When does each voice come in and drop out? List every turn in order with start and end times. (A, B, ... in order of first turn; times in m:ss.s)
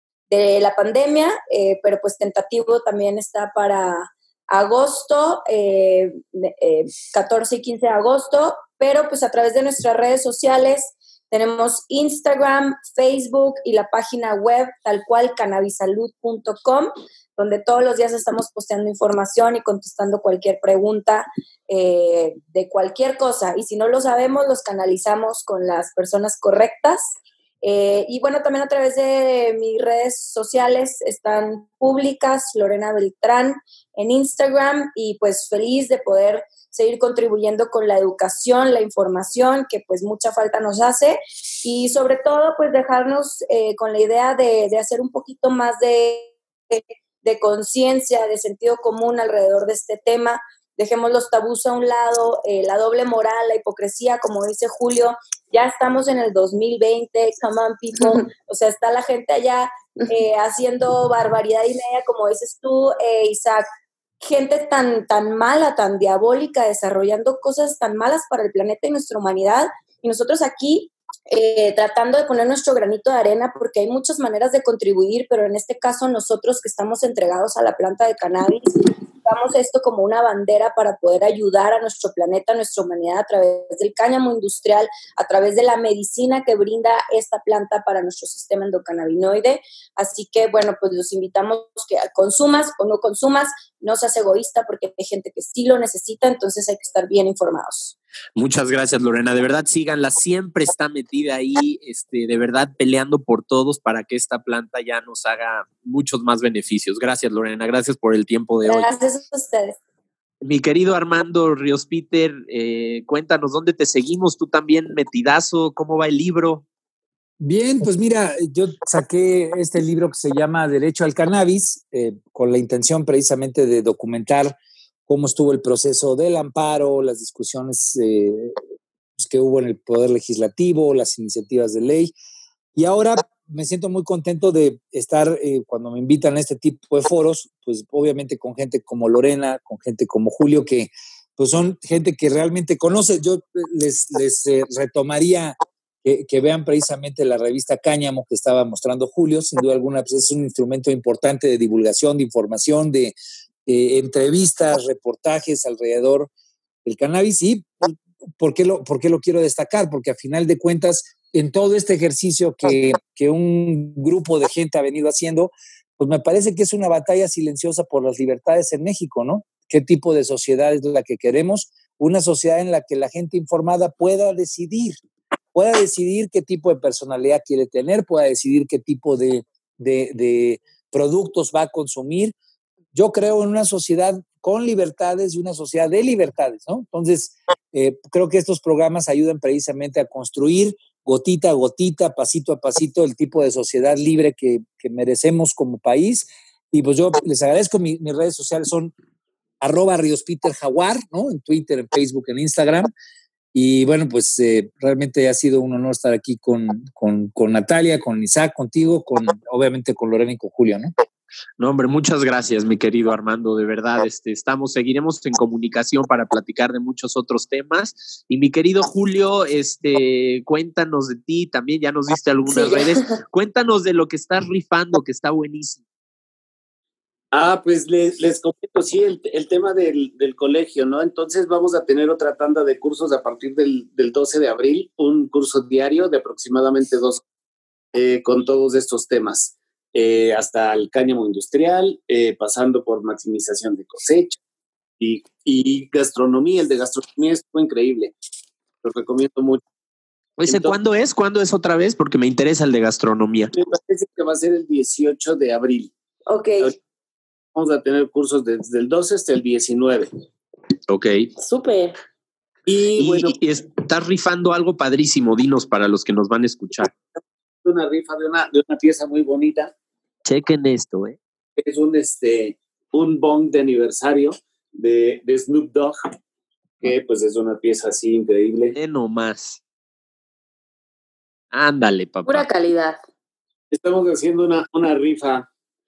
0:00.3-1:03.6 A
1:04.2-1:37.9 A
1:38.4-1:48.9 B
1:48.6-1:49.8 A
1:50.4-1:56.6 B
1:57.4-2:04.6 C
2:05.1-2:08.5 C
2:09.2-2:12.1 C
2:12.7-2:33.1 C
2:33.6-2:36.3 C
2:36.8-2:55.0 C
2:55.5-3:02.3 C
3:02.9-3:18.9 C
3:19.6-3:22.9 C
3:23.5-3:30.9 C
3:31.6-3:45.8 B
3:42.5-3:43.2 D
3:47.3-3:57.2 E
3:57.9-4:04.4 E
4:05.0-4:08.1 E
4:08.8-4:09.6 E
4:10.4-4:13.5 B
4:10.4-4:10.8 E
4:13.5-4:15.9 E
4:16.3-4:16.7 D
4:17.5-4:20.1 E
4:20.9-4:21.3 B
4:21.4-4:22.0 D
4:22.7-4:23.4 E
4:23.0-4:26.9 B
4:27.6-4:29.7 E
4:30.2-4:31.2 B
4:31.6-4:36.0 E
4:36.8-4:38.8 E
4:38.7-4:39.6 B
4:41.5-4:42.5 B
4:42.2-4:43.0 D
4:43.7-4:45.5 E